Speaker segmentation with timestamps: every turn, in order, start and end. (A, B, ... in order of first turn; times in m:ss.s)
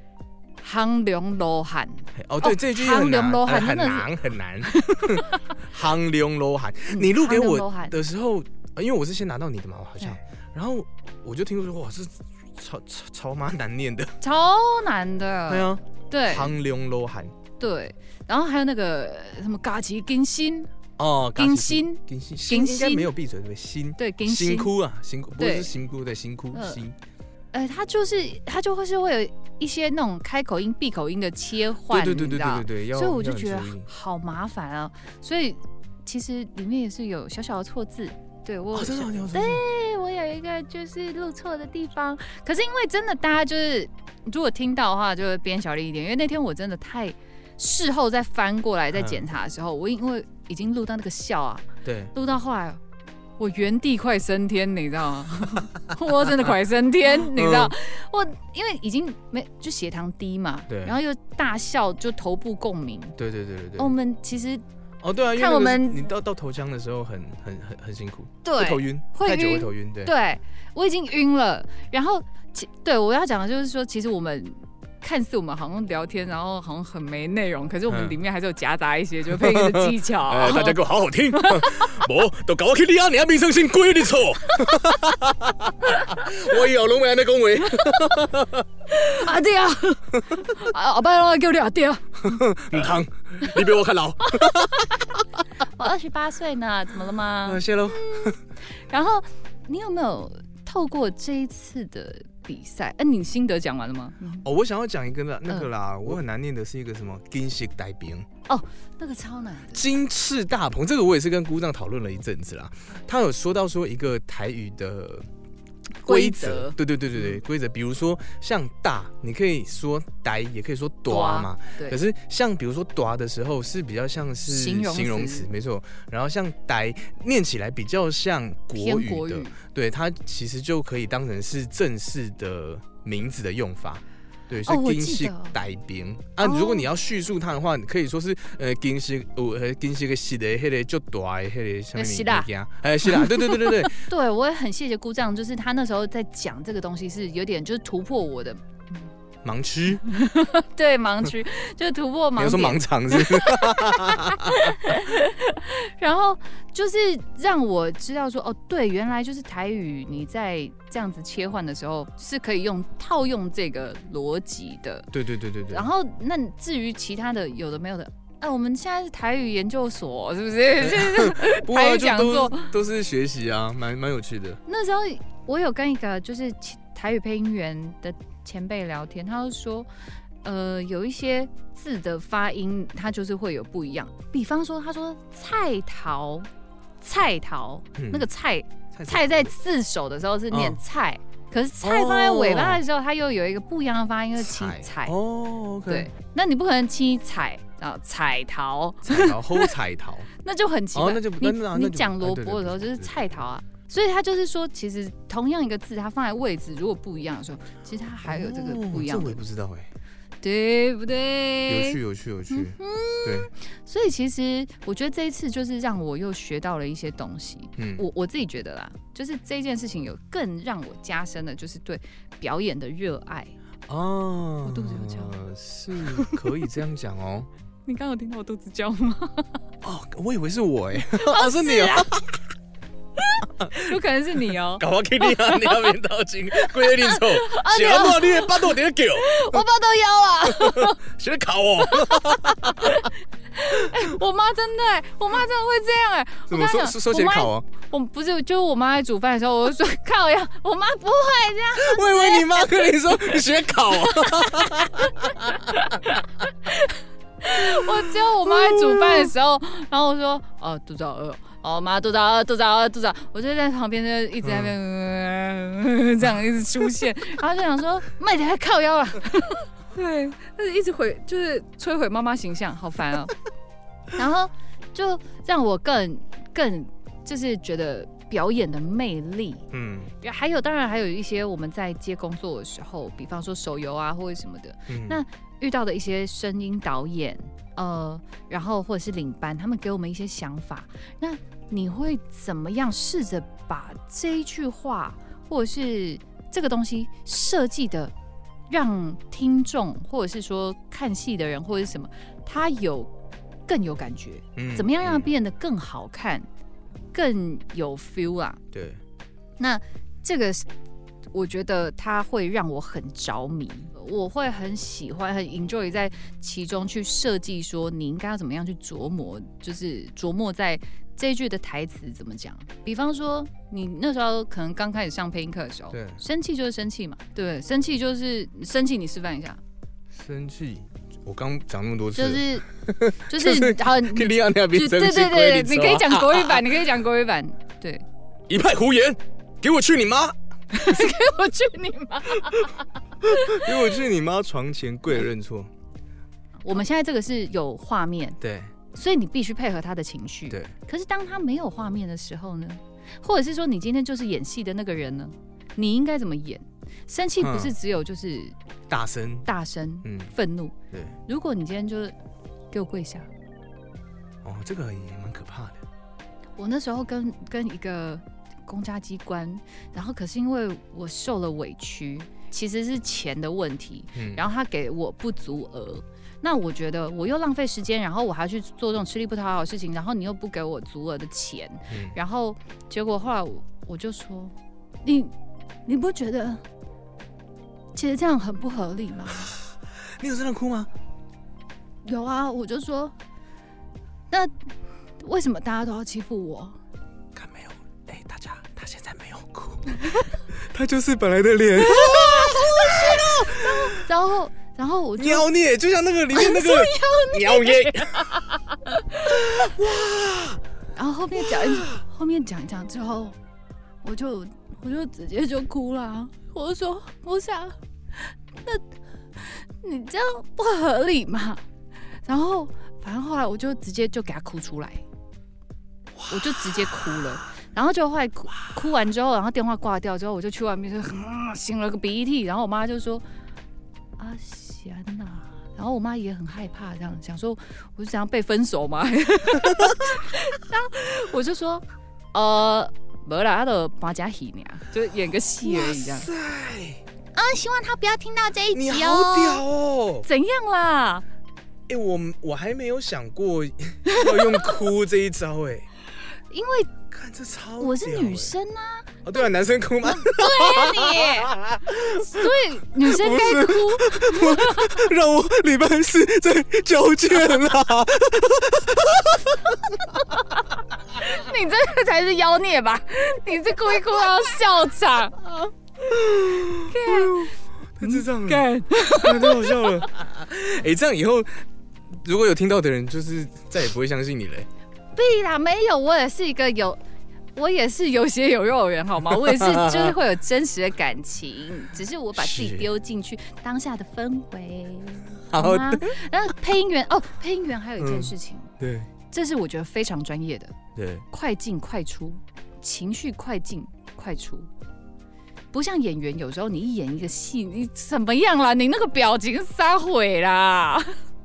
0:00.6-0:04.1 A
0:02.1-0:14.2 B
0:04.6-0:05.4 A
0:06.9-0:08.0 A
0:14.2-0:16.5 A
0:15.5-0:17.4 B
0:17.6-0:20.7 A
0:21.0-0:27.0 B
0:21.4-0:23.1 A
0:24.0-0:24.7 A
0:25.4-0:25.7 A
0:26.5-0:26.8 A
0:27.5-0:52.8 A
0:31.9-0:33.9 B
0:38.7-0:39.6 B
0:48.9-0:49.2 B
0:51.8-0:52.1 B
0:53.4-1:03.2 A
0:57.2-0:57.8 B
1:00.7-1:01.0 B
1:03.2-1:03.9 B
1:03.8-1:04.6 A
1:05.0-1:10.1 B
1:05.4-1:06.1 A
1:08.4-1:20.8 A
1:17.9-1:18.2 B
1:19.3-1:28.7 B
1:21.3-1:22.0 A
1:27.7-1:28.2 A
1:28.9-1:32.4 A
1:32.2-1:34.9 B
1:34.3-1:35.0 A
1:35.8-1:44.5 A
1:37.4-1:38.4 B
1:44.4-1:48.3 B
1:48.5-1:49.8 A
1:49.7-1:55.3 B
1:56.0-2:24.0 B
1:56.0-1:57.4 A
2:01.1-2:02.0 A
2:04.5-2:05.5 A
2:08.8-2:09.6 A
2:14.6-2:15.6 A
2:16.4-2:16.9 A
2:22.0-2:22.5 A
2:23.1-2:29.1 A
2:29.4-2:30.0 B
2:30.1-2:45.1 A
2:32.4-2:34.9 B
2:45.1-2:45.9 B
2:45.7-2:52.7 A
2:50.8-2:54.6 B
2:54.7-2:59.9 A
3:00.4-3:06.5 A
3:07.0-3:15.2 A
3:08.0-3:08.3 B
3:08.9-3:09.5 B
3:10.5-3:10.8 B
3:11.8-3:12.8 B
3:14.4-3:16.1 B
3:15.9-3:19.7 A
3:19.0-3:20.3 B
3:20.4-3:29.4 A
3:20.9-3:23.3 B
3:28.2-3:29.9 B
3:30.4-3:43.6 A
3:31.7-3:33.5 B
3:37.8-3:38.0 B
3:43.9-3:47.5 B
3:44.6-3:45.4 A
3:46.1-3:46.4 A
3:47.9-3:49.6 A
3:49.8-3:52.4 B
3:51.0-3:52.1 A
3:53.2-3:55.9 A
3:53.6-3:54.0 B
3:54.8-3:59.6 B
3:56.6-4:01.0 A
4:00.4-4:03.1 B
4:01.8-4:33.3 A
4:06.5-4:07.7 B
4:11.8-4:16.1 B
4:17.6-4:19.3 B
4:24.4-4:24.8 B
4:34.2-4:39.7 A
4:39.7-4:40.1 B
4:40.2-4:58.1 A
4:44.9-4:45.2 B
4:58.7-5:03.1 A
5:03.7-5:06.5 A
5:04.6-5:05.3 B
5:07.1-5:08.6 A
5:08.7-5:09.0 B
5:09.6-5:10.7 A
5:11.3-5:29.6 A
5:25.9-5:26.2 B
5:30.1-5:36.7 B
5:32.1-5:32.7 A
5:33.3-5:38.0 A
5:38.5-5:41.1 B
5:40.7-5:43.8 A
5:43.2-5:45.7 B
5:46.6-5:48.4 A
5:48.4-5:48.7 B
5:48.9-5:58.6 A
5:57.4-5:57.7 B
5:58.9-5:59.5 B
5:59.5-6:02.2 A
6:00.0-6:00.3 B
6:00.9-6:01.2 B
6:02.7-6:03.3 A
6:04.4-6:05.8 B
6:06.6-6:25.3 A
6:14.2-6:14.4 B
6:21.9-6:22.2 B
6:25.9-6:26.6 A
6:27.9-6:29.5 A
6:30.2-6:30.9 B
6:32.0-6:33.1 A
6:35.2-6:36.8 A
6:37.4-6:44.0 B
6:41.8-6:45.5 A
6:45.2-6:48.4 B
6:46.3-6:49.6 A
6:49.3-6:50.6 B
6:51.0-6:53.4 A
6:51.4-6:52.0 B
6:54.0-6:58.8 A
6:59.4-7:01.6 A
7:02.2-7:05.0 A
7:06.2-7:07.3 B
7:06.3-7:13.2 A
7:14.2-7:26.3 A
7:25.6-7:27.0 B
7:27.3-7:29.6 A
7:28.7-7:30.3 B
7:30.2-7:31.2 A
7:31.9-7:35.9 B
7:34.1-7:34.6 A
7:36.5-7:36.9 A
7:37.1-7:38.5 B
7:37.8-7:39.2 A
7:39.2-7:50.0 B
7:40.0-7:41.5 A
7:42.2-7:45.0 A
7:50.1-7:55.4 A
7:56.0-8:04.7 B
7:56.9-8:00.0 A
8:05.2-8:07.0 A
8:07.6-8:18.7 A
8:09.4-8:10.2 B
8:12.4-8:12.8 B
8:15.5-8:16.2 B
8:18.0-8:19.1 B
8:19.3-8:20.8 A
8:21.0-8:21.2 B
8:21.3-8:24.7 A
8:25.7-8:31.1 A